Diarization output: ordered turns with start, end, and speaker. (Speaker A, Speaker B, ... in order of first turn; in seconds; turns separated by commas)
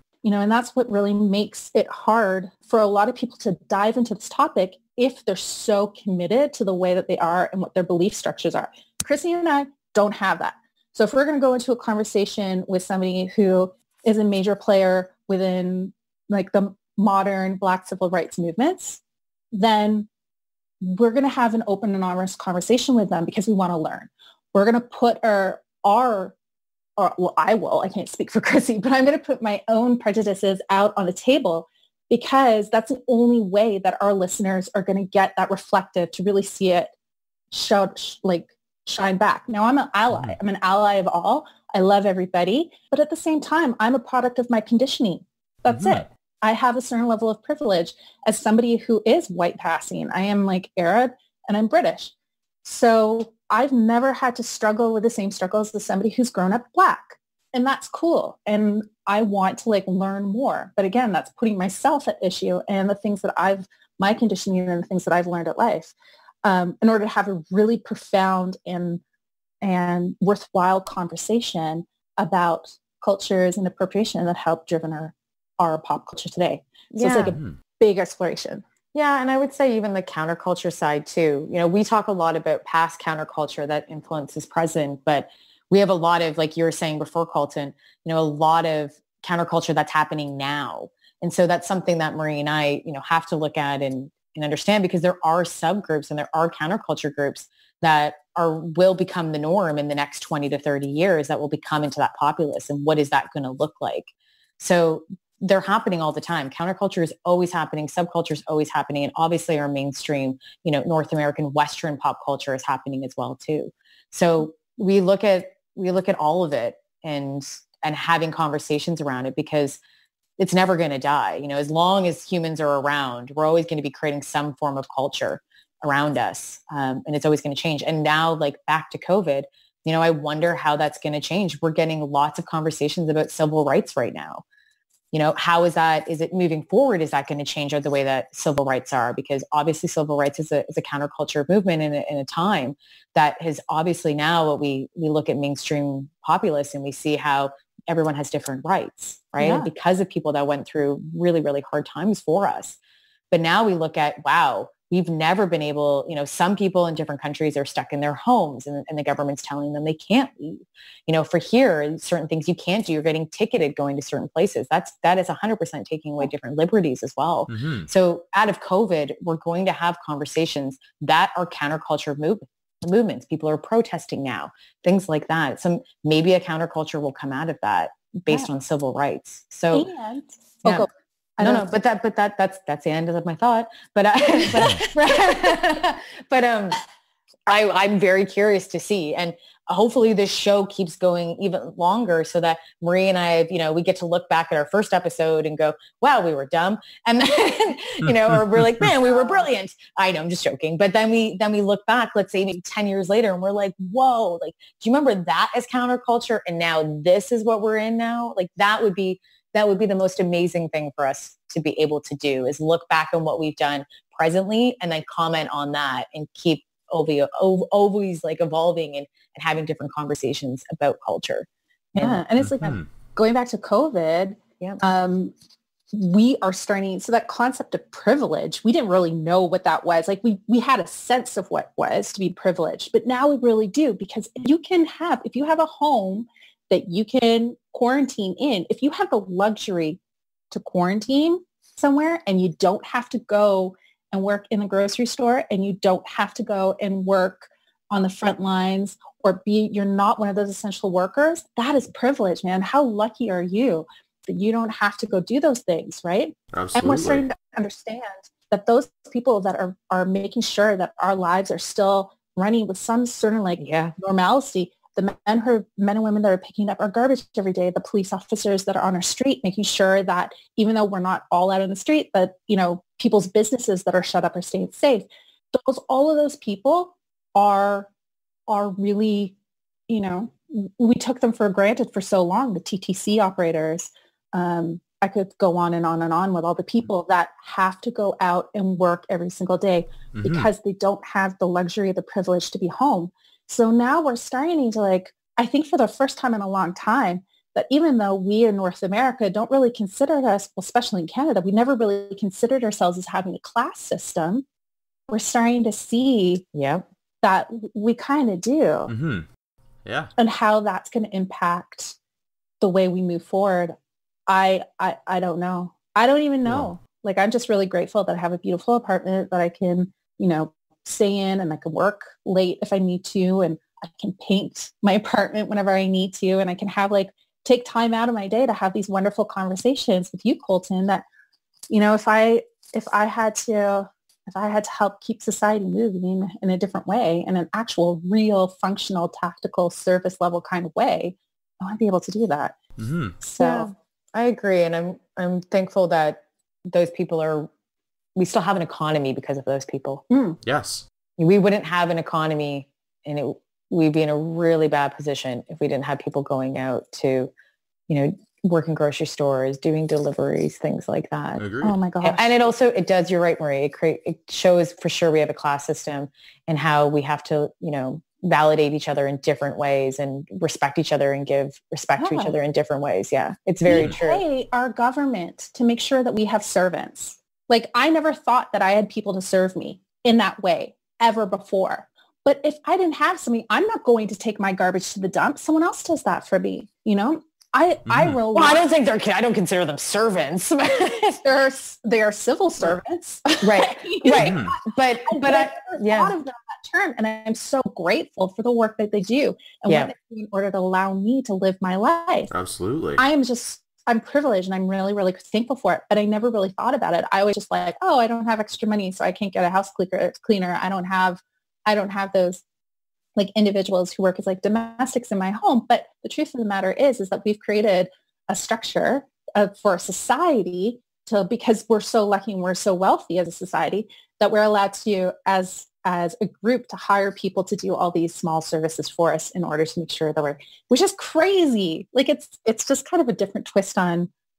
Speaker A: 0.2-19.0, Speaker A: 19.5-20.1, Speaker A: 20.8-26.4, Speaker A: 27.0-36.9, Speaker A: 37.5-52.1, Speaker B: 40.1-40.4, Speaker B: 45.7-46.1, Speaker A: 52.6-69.0, Speaker A: 69.6-78.6, Speaker C: 76.9-77.4, Speaker C: 78.9-119.8, Speaker C: 120.4-134.4, Speaker C: 135.1-152.8, Speaker A: 149.4-149.7, Speaker C: 153.3-179.9, Speaker B: 167.5-167.9, Speaker A: 179.7-181.8, Speaker C: 181.4-186.8, Speaker A: 184.4-184.9, Speaker C: 187.5-222.2, Speaker A: 221.9-225.3, Speaker B: 222.4-222.9, Speaker A: 225.9-240.0, Speaker A: 240.5-277.9, Speaker B: 256.5-257.2, Speaker C: 263.6-263.9, Speaker A: 278.5-279.3, Speaker A: 279.9-304.4, Speaker B: 290.1-290.5, Speaker A: 305.1-306.4, Speaker C: 306.5-306.9, Speaker A: 307.2-308.9, Speaker B: 308.9-309.3, Speaker B: 309.9-310.1, Speaker A: 310.2-312.0, Speaker A: 312.6-313.8, Speaker A: 314.3-331.1, Speaker B: 316.4-316.7, Speaker A: 331.7-342.6, Speaker B: 342.8-343.2, Speaker A: 343.2-343.7, Speaker C: 343.4-347.5, Speaker C: 348.2-350.0, Speaker A: 350.1-350.4, Speaker B: 350.4-350.9, Speaker C: 351.2-357.3, Speaker C: 357.9-361.4, Speaker B: 361.4-361.8, Speaker A: 361.6-362.4, Speaker C: 362.0-374.2, Speaker A: 372.0-372.4, Speaker A: 373.7-388.7, Speaker B: 387.9-388.2, Speaker C: 388.3-391.2, Speaker A: 391.2-402.3, Speaker C: 393.4-396.2, Speaker B: 394.2-394.5, Speaker C: 399.7-399.9, Speaker B: 402.3-403.0, Speaker A: 403.0-412.4, Speaker A: 413.2-434.1